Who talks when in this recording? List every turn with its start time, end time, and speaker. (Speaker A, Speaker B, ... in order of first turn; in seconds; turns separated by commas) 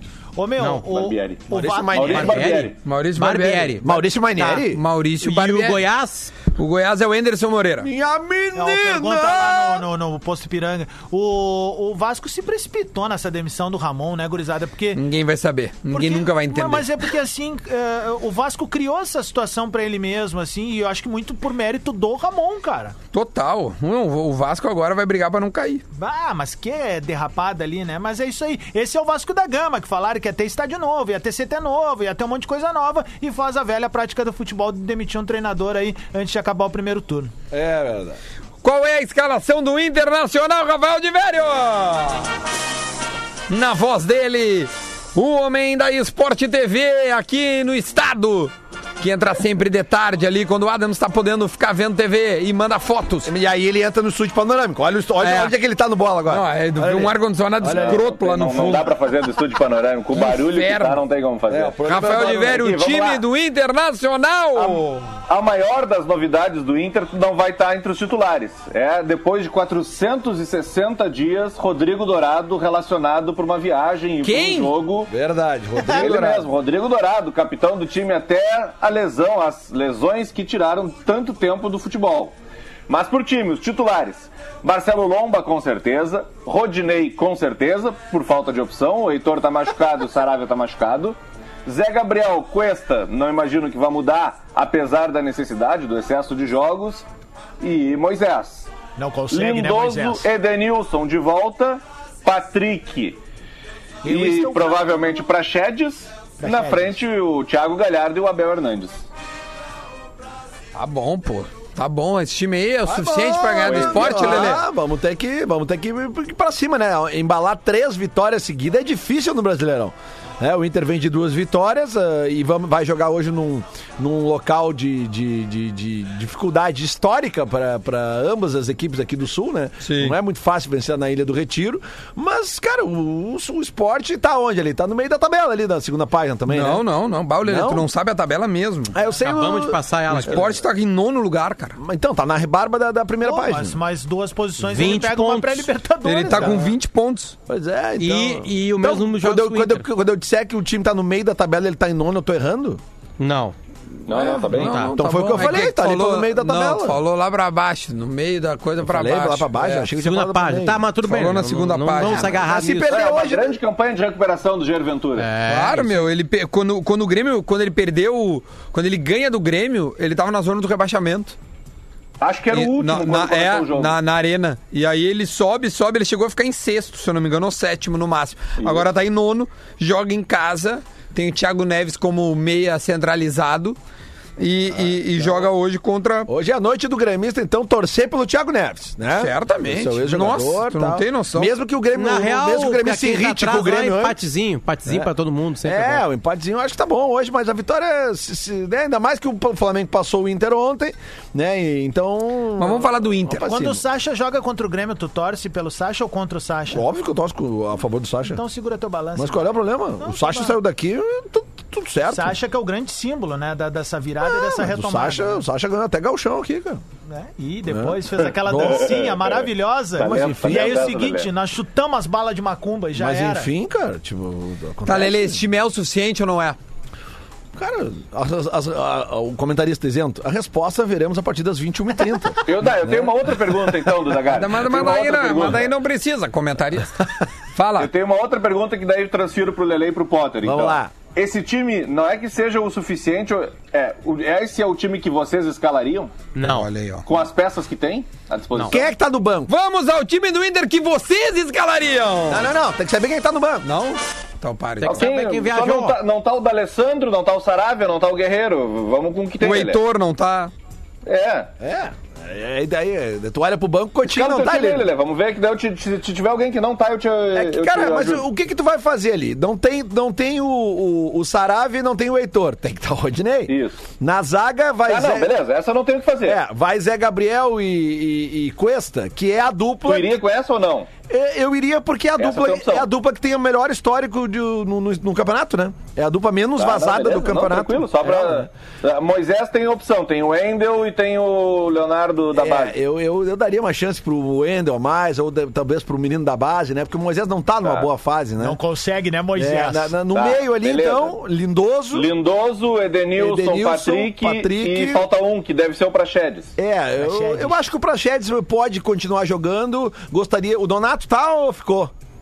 Speaker A: 0.3-2.2, Speaker B: 0.6-0.8, Speaker C: 0.8-2.8, Speaker D: 1.5-2.6, Speaker B: 2.1-4.7, Speaker E: 2.8-3.8, Speaker D: 3.8-4.8, Speaker E: 4.7-5.8, Speaker B: 5.2-6.3, Speaker E: 6.5-7.9, Speaker D: 7.8-9.9, Speaker A: 8.5-15.0, Speaker E: 14.9-16.9, Speaker A: 15.9-22.9, Speaker E: 23.1-25.8, Speaker A: 25.9-37.3, Speaker D: 37.5-38.2, Speaker E: 38.6-42.3, Speaker E: 43.5-53.3, Speaker D: 53.2-58.9, Speaker E: 55.2-55.5, Speaker E: 56.3-59.0, Speaker C: 57.6-63.2, Speaker E: 60.1-61.0, Speaker D: 61.5-62.7, Speaker E: 61.8-65.1, Speaker C: 64.5-75.1, Speaker E: 74.2-74.7, Speaker D: 75.1-76.5, Speaker C: 75.9-82.3, Speaker C: 82.9-97.0, Speaker C: 97.6-98.7, Speaker A: 99.0-100.2, Speaker C: 99.3-103.2, Speaker C: 104.0-109.0, Speaker A: 104.0-104.9, Speaker A: 106.4-106.9, Speaker E: 110.7-114.6, Speaker D: 112.8-136.8, Speaker C: 113.6-114.5, Speaker E: 129.8-130.2, Speaker E: 136.5-138.9, Speaker D: 137.4-137.8, Speaker D: 138.9-140.6, Speaker B: 139.2-140.5, Speaker E: 140.1-141.8, Speaker D: 141.8-143.8, Speaker A: 143.2-146.7, Speaker B: 144.7-145.7, Speaker E: 146.0-147.3, Speaker D: 146.3-146.7, Speaker D: 147.5-152.8, Speaker B: 148.0-149.8, Speaker B: 153.2-153.5, Speaker C: 154.1-154.8, Speaker D: 154.3-157.0, Speaker E: 154.3-159.9, Speaker B: 154.6-155.0, Speaker D: 158.8-160.8, Speaker B: 159.9-162.9, Speaker E: 161.0-162.4, Speaker D: 162.0-163.6, Speaker C: 162.8-165.3, Speaker B: 165.2-166.0, Speaker E: 165.4-171.3, Speaker C: 172.2-173.9, Speaker E: 172.5-183.8, Speaker C: 178.6-178.9, Speaker E: 184.4-186.3, Speaker D: 184.7-185.5, Speaker D: 186.2-194.2, Speaker E: 189.2-191.5, Speaker B: 191.9-196.0, Speaker D: 195.6-203.8, Speaker E: 202.6-203.5, Speaker A: 203.5-206.8, Speaker D: 206.7-208.4, Speaker A: 208.3-209.5, Speaker D: 209.1-212.4, Speaker A: 210.0-210.5, Speaker A: 212.1-215.4, Speaker D: 214.2-216.8, Speaker A: 217.1-223.5, Speaker D: 217.7-219.0, Speaker C: 218.6-221.3, Speaker D: 220.0-220.7, Speaker D: 222.9-225.4, Speaker E: 224.8-226.6, Speaker D: 227.6-233.9, Speaker C: 232.4-235.7, Speaker E: 234.2-237.9, Speaker C: 237.8-246.2, Speaker D: 240.4-240.9, Speaker B: 246.3-246.7, Speaker E: 246.4-247.1, Speaker C: 247.1-248.8, Speaker B: 248.5-248.8, Speaker D: 248.7-249.5, Speaker E: 249.5-252.5, Speaker D: 252.3-253.7, Speaker E: 253.6-255.0, Speaker B: 254.8-256.0, Speaker C: 254.8-259.8, Speaker E: 259.4-260.5, Speaker C: 261.1-261.5, Speaker D: 261.6-264.9, Speaker C: 264.1-268.2, Speaker D: 267.3-275.3, Speaker C: 273.5-273.8, Speaker C: 274.9-276.4, Speaker D: 276.2-280.2, Speaker C: 279.8-280.9, Speaker D: 281.1-288.5, Speaker C: 282.1-282.9, Speaker C: 286.6-292.7, Speaker D: 292.3-298.6, Speaker A: 298.4-300.0, Speaker D: 299.3-302.1, Speaker C: 300.1-301.1, Speaker C: 301.9-306.5, Speaker D: 303.1-305.1, Speaker D: 306.6-311.9, Speaker A: 307.0-307.6